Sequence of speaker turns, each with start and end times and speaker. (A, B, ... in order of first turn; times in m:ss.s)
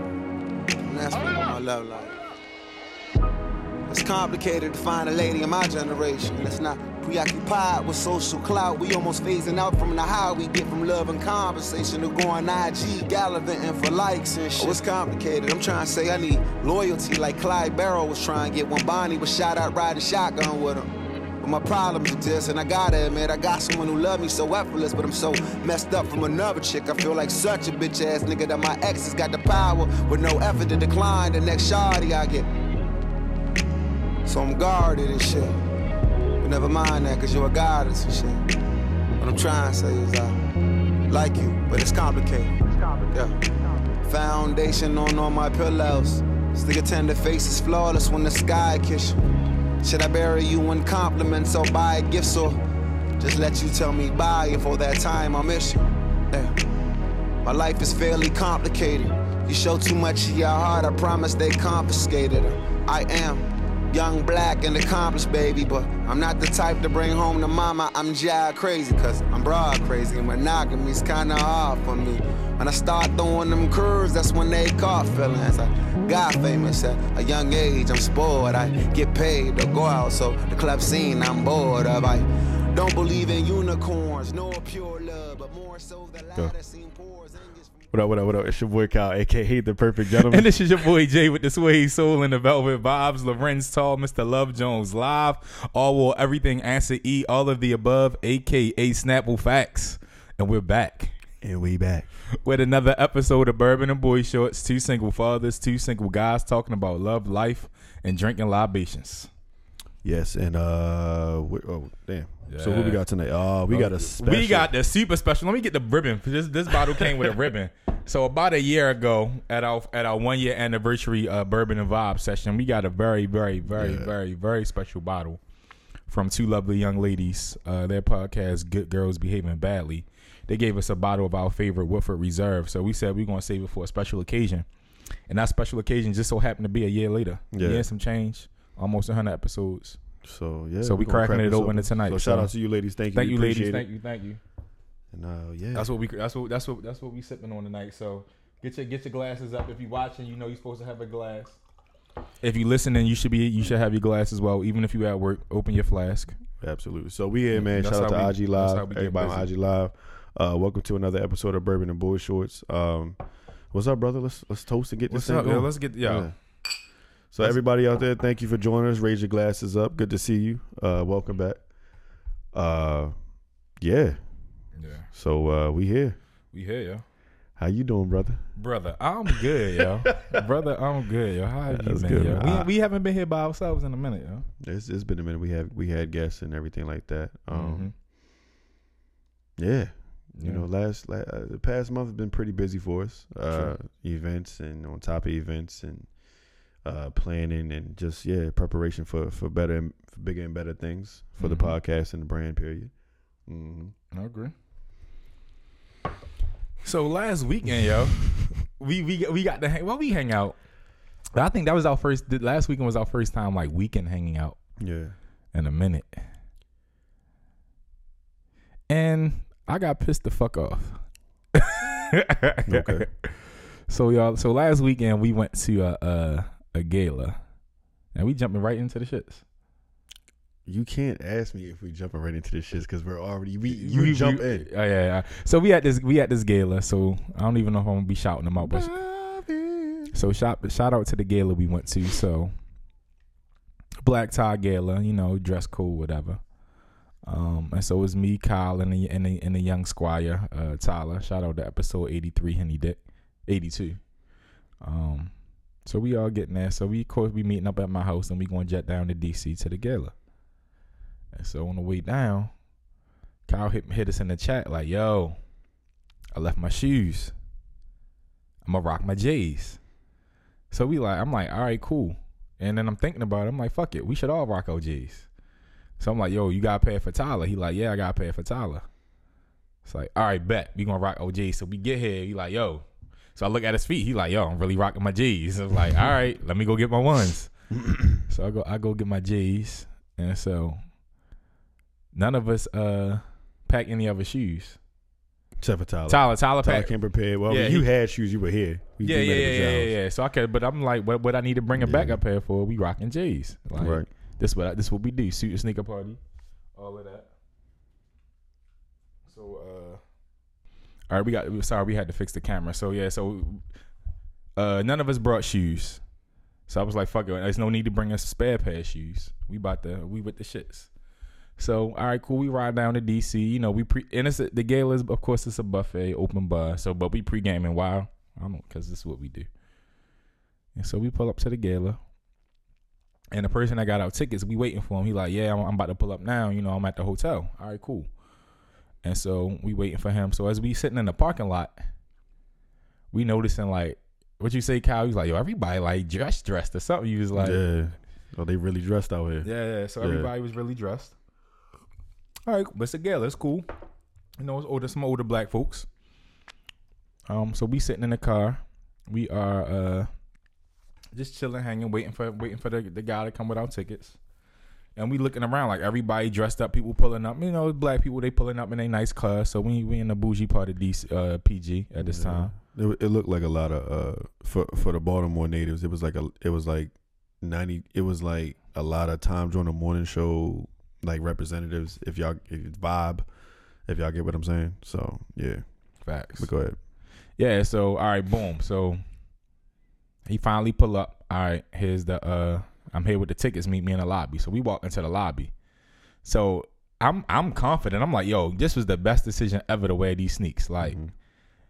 0:00.8-0:02.2 A
0:03.9-0:32.5 A
0:34.2-0:35.6 A
0:36.4-0:38.4 A
0:39.2-0:40.4 A
0:41.1-0:43.4 A
0:44.0-0:49.2 A
0:49.8-0:52.6 A
0:53.2-0:56.5 A
0:57.4-1:27.8 A
1:27.9-1:30.5 B
1:30.0-1:41.1 C
1:41.4-1:42.1 B
1:42.4-1:49.3 C
1:50.0-1:54.7 B
1:52.5-1:53.0 C
1:53.7-2:05.4 C
2:03.7-2:04.1 B
2:06.1-2:14.7 C
2:15.3-2:20.0 C
2:17.5-2:17.9 B
2:20.2-2:23.9 B
2:20.8-2:22.5 C
2:23.1-2:24.4 C
2:25.1-2:25.9 B
2:25.7-2:31.6 C
2:32.4-2:36.4 C
2:36.6-2:43.2 B
2:37.6-2:39.5 C
2:43.7-2:46.3 B
2:45.1-2:46.3 C
2:47.3-2:51.6 B
2:52.5-2:53.1 B
2:53.8-2:54.2 B
2:54.8-2:55.1 C
2:55.1-2:56.2 B
2:56.5-2:57.0 C
2:57.6-2:58.4 B
2:58.6-3:04.5 C
2:59.8-3:00.4 B
3:01.7-3:02.7 B
3:04.6-3:07.9 B
3:07.5-3:07.9 C
3:09.6-3:16.1 B
3:10.4-3:10.7 C
3:16.8-3:22.9 B
3:21.4-3:21.8 C
3:23.5-3:24.0 B
3:24.1-3:24.5 C
3:26.8-3:30.6 C
3:31.4-3:34.6 C
3:34.8-3:35.2 B
3:35.5-3:36.2 C
3:38.9-3:41.0 C
3:41.6-3:43.3 C
3:42.7-3:43.1 B
3:43.9-3:47.4 C
3:48.2-3:49.4 C
3:50.7-3:54.7 B
3:53.7-3:58.9 C
3:58.6-4:00.2 B
4:00.1-4:02.5 C
4:04.0-4:06.4 C
4:07.2-4:14.0 C
4:14.8-4:15.3 C
4:15.8-4:20.1 C
4:21.4-4:22.5 C
4:23.5-4:25.4 C
4:26.3-4:27.3 C
4:28.6-4:29.8 C
4:30.7-4:35.3 C
4:36.0-4:38.9 C
4:39.8-4:47.5 C
4:47.9-4:48.2 B
4:48.3-4:50.8 C
4:52.1-4:54.8 C
4:55.6-4:59.9 B
4:56.1-4:56.9 C
4:57.5-4:57.9 C
4:59.0-5:06.2 C
5:01.8-5:02.2 B
5:03.8-5:04.1 B
5:06.8-5:07.3 C
5:09.3-5:10.0 C
5:11.1-5:13.6 C
5:14.6-5:16.0 C
5:16.7-5:20.9 C
5:21.6-5:29.5 C
5:30.8-5:32.0 C
5:33.3-5:38.1 C
5:39.0-5:41.8 C
5:43.1-5:47.6 C
5:47.4-5:49.5 B
5:49.4-5:51.1 C
5:50.0-5:50.3 B
5:52.5-5:53.7 C
5:54.4-5:55.9 C
5:57.3-6:00.1 C
6:01.1-6:04.2 C
6:05.0-6:12.5 C
6:12.0-6:23.3 B
6:23.9-6:25.6 B
6:26.0-6:26.5 C
6:26.4-6:26.8 B
6:27.4-6:29.0 C
6:30.3-6:35.5 C
6:36.2-6:41.0 C
6:40.8-6:41.1 B